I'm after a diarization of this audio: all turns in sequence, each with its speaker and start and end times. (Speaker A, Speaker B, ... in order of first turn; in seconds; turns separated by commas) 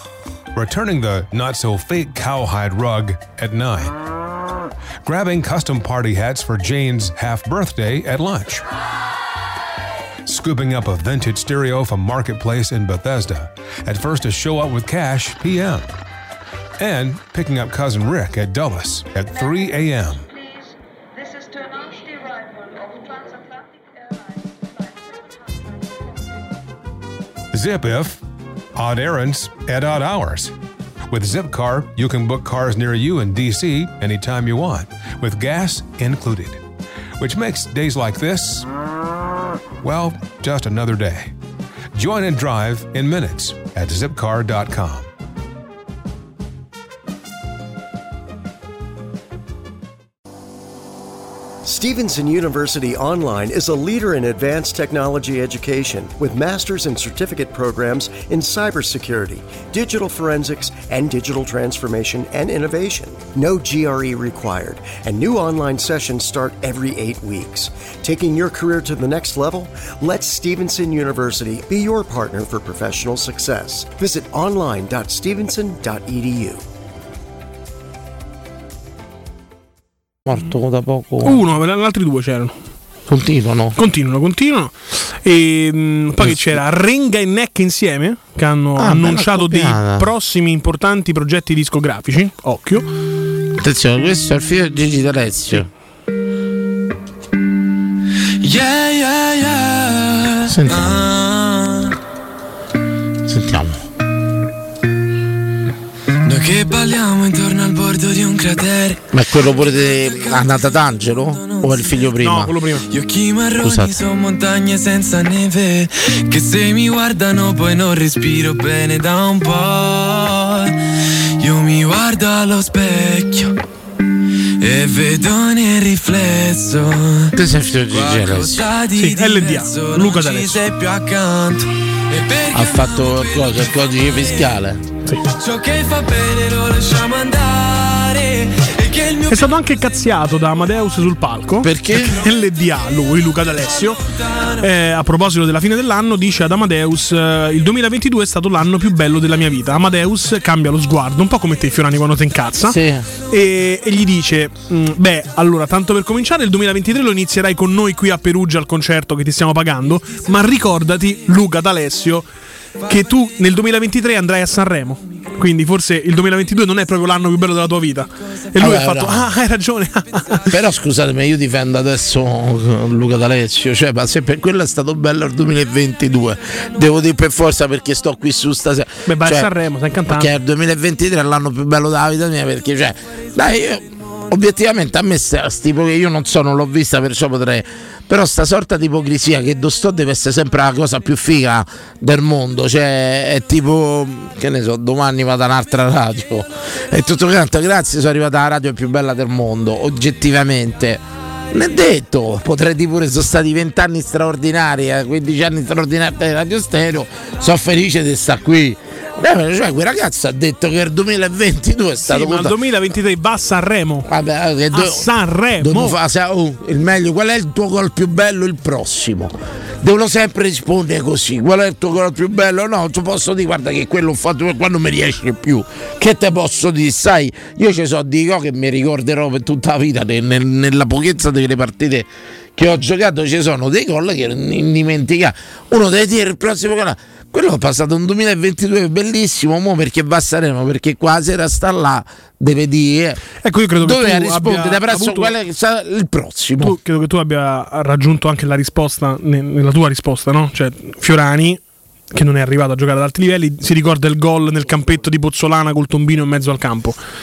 Speaker A: 0.5-3.9, Speaker A: 5.0-8.6, Speaker A: 10.2-15.9, Speaker A: 16.8-20.3, Speaker A: 27.5-28.2, Speaker A: 28.8-30.5, Speaker A: 31.1-36.6, Speaker A: 37.2-38.6, Speaker A: 39.8-41.3, Speaker A: 41.9-45.1, Speaker B: 51.6-76.6, Speaker C: 80.2-81.4, Speaker D: 81.2-82.5, Speaker C: 83.1-83.8, Speaker D: 83.8-92.9, Speaker C: 86.2-86.6, Speaker C: 88.8-90.1, Speaker C: 93.5-95.7, Speaker E: 98.4-101.9, Speaker C: 100.5-101.0, Speaker C: 103.2-103.8, Speaker E: 106.2-112.1, Speaker C: 109.1-112.5, Speaker D: 112.2-112.9, Speaker E: 112.9-120.7, Speaker C: 113.6-114.0, Speaker E: 121.4-123.5, Speaker E: 124.6-127.3, Speaker C: 127.3-128.7, Speaker E: 127.9-134.5, Speaker D: 128.9-130.6, Speaker C: 132.5-134.8, Speaker E: 135.4-139.5, Speaker D: 139.3-144.0, Speaker C: 141.6-142.2, Speaker D: 144.6-152.8, Speaker C: 152.6-153.1, Speaker D: 153.3-162.2, Speaker D: 162.8-170.4, Speaker C: 168.6-169.3, Speaker C: 170.5-179.5, Speaker D: 179.1-180.3, Speaker C: 180.1-212.5, Speaker D: 212.1-214.1, Speaker C: 214.1-243.2, Speaker D: 214.7-216.0, Speaker D: 243.4-245.3, Speaker C: 243.8-246.8, Speaker D: 246.6-251.6, Speaker D: 252.1-257.0